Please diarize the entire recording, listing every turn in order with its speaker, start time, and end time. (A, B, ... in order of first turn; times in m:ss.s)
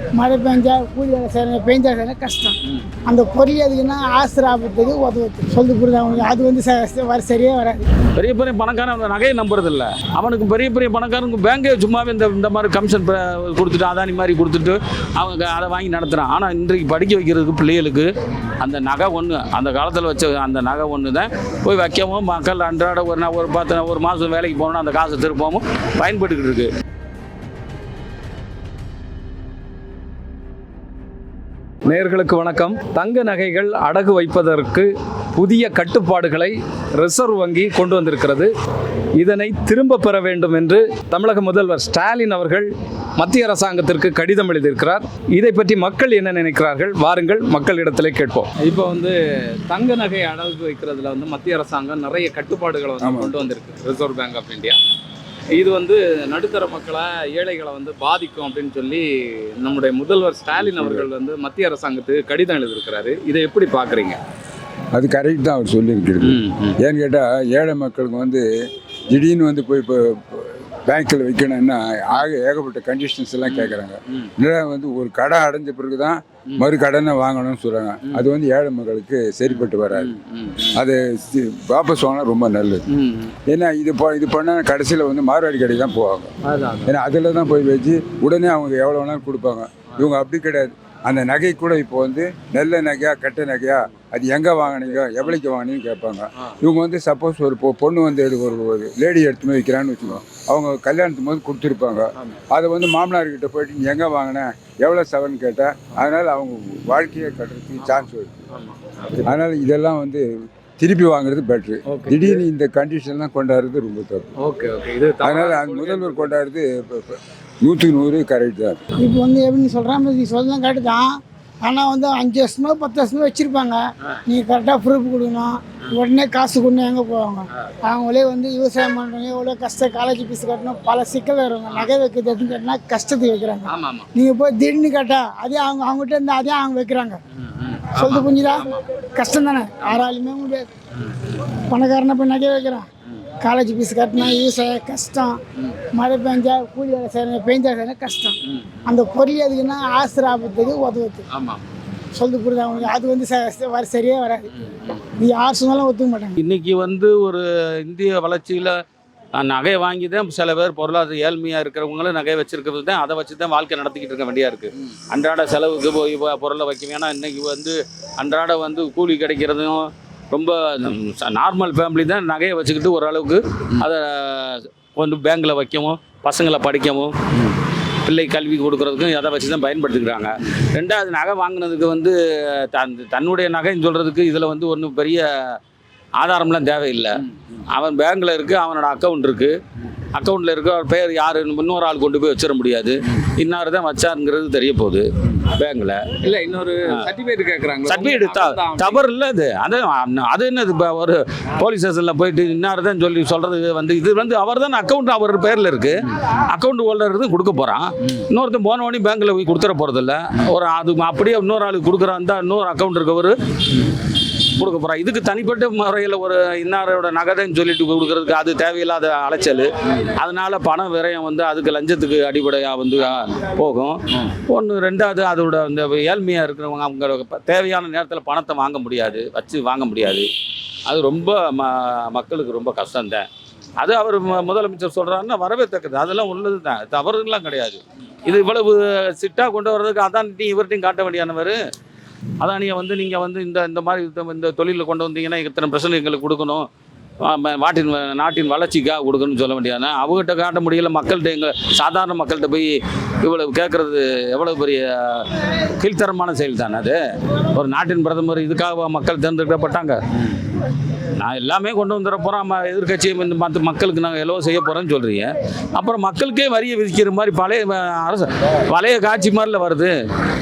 0:00.2-0:07.8 A
0:08.1-0:18.1 B
0:18.6-0:26.7 B
0:31.8-0:38.5 C
0:39.2-0:54.8 C
0:53.0-0:53.4 D
0:55.6-1:04.2 C
1:00.6-1:01.1 D
1:04.9-1:08.4 D
1:06.2-1:06.8 C
1:09.1-1:20.2 D
1:13.5-1:14.3 C
1:19.5-1:20.8 C
1:20.7-1:22.8 D
1:22.9-1:23.4 C
1:23.5-1:26.3 D
1:26.4-1:27.0 C
1:26.9-1:48.4 D
1:47.8-1:49.2 C
1:49.2-1:50.3 D
1:50.8-1:54.3 D
1:51.9-1:52.4 C
1:54.4-1:56.4 C
1:55.2-1:58.9 D
1:59.0-2:01.1 A
2:01.6-2:17.2 A
2:13.7-2:14.1 C
2:17.4-2:18.9 C
2:18.0-2:20.7 A
2:21.0-2:21.4 C
2:21.6-2:22.8 A
2:23.4-2:25.4 A
2:25.9-2:31.3 A
2:28.5-2:28.8 C
2:31.3-2:31.7 C
2:32.2-2:34.4 A
2:34.6-2:35.1 C
2:35.2-2:36.4 A
2:36.4-2:38.8 B
2:39.4-2:57.1 B
2:58.0-3:05.3 B
3:06.2-3:09.6 B
3:10.2-3:16.1 B
3:16.2-3:19.0 C
3:17.9-3:33.4 B
3:34.6-3:50.3 B
3:50.9-3:53.3 B
3:53.8-4:01.6 B
4:02.4-4:06.7 B
4:07.2-4:17.0 B
4:17.5-4:20.0 B
4:21.1-4:30.0 B